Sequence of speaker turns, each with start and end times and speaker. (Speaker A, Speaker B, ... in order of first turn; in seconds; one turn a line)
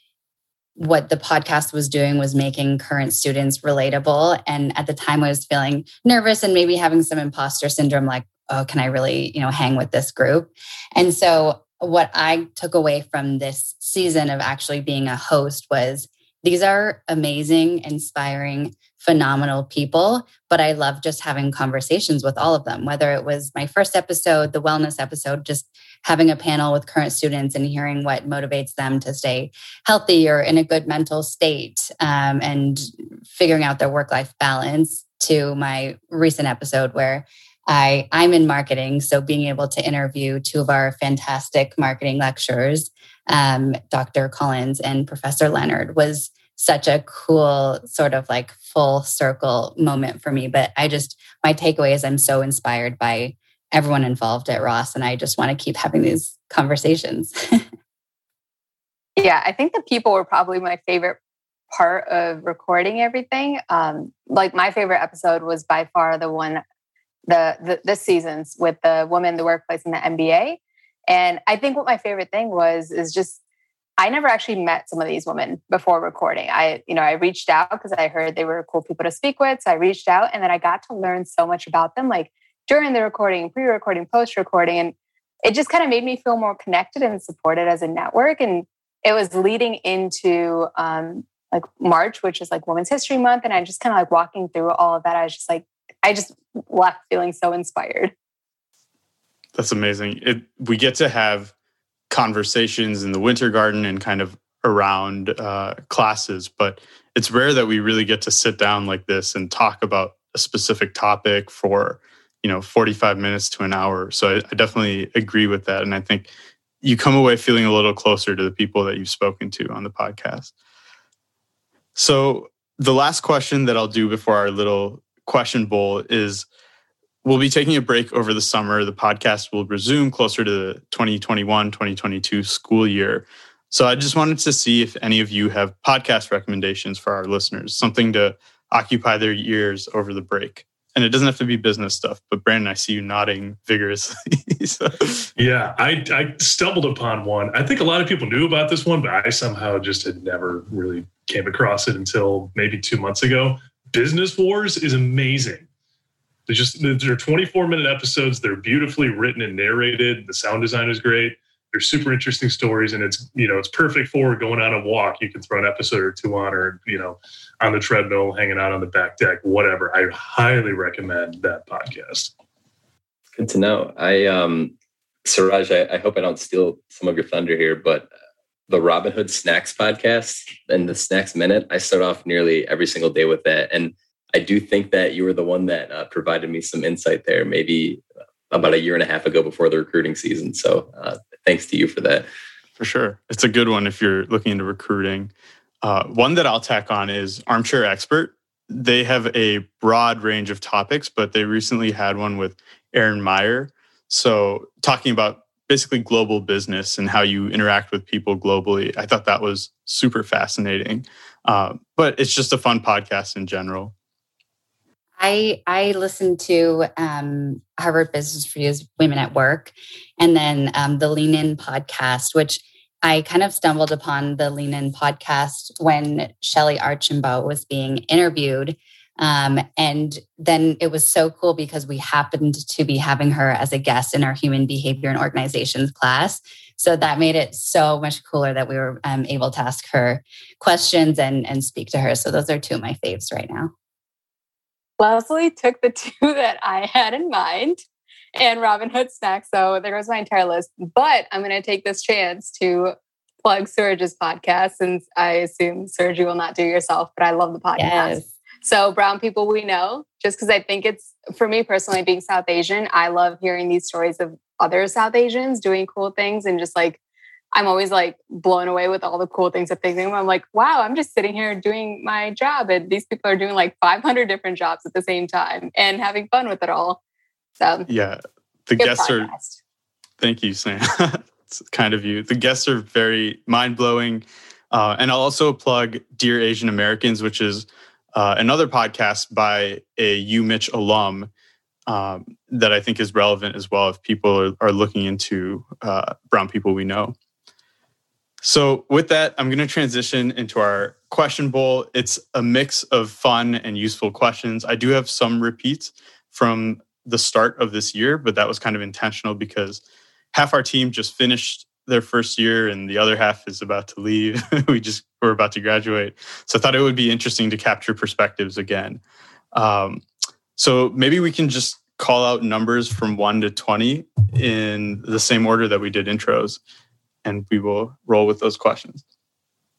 Speaker A: 0.8-57.6
Speaker B: 59.2-61.2
Speaker B: 61.7-66.6
Speaker B: 67.3-73.4
Speaker B: 74.0-98.1
Speaker C: 99.5-101.5
Speaker C: 102.1-116.3
Speaker C: 116.8-120.5
Speaker C: 122.0-126.5
Speaker C: 127.2-145.3
Speaker D: 145.4-155.7
Speaker D: 156.5-172.3
Speaker E: 173.3-174.7
Speaker E: 175.2-178.1
Speaker E: 178.7-192.3
Speaker C: 192.8-213.9
Speaker A: 215.2-243.7
Speaker B: 245.0-247.8
Speaker B: 248.3-267.0
Speaker A: 257.8-258.3
Speaker B: 267.5-277.0
Speaker B: 277.6-277.9
Speaker C: 277.9-279.3
Speaker B: 278.8-279.6
Speaker C: 280.2-291.3
Speaker C: 291.9-297.1
Speaker C: 298.4-309.8
Speaker C: 310.3-319.0
Speaker C: 319.5-320.0
Speaker C: 320.6-326.6
Speaker C: 327.2-329.0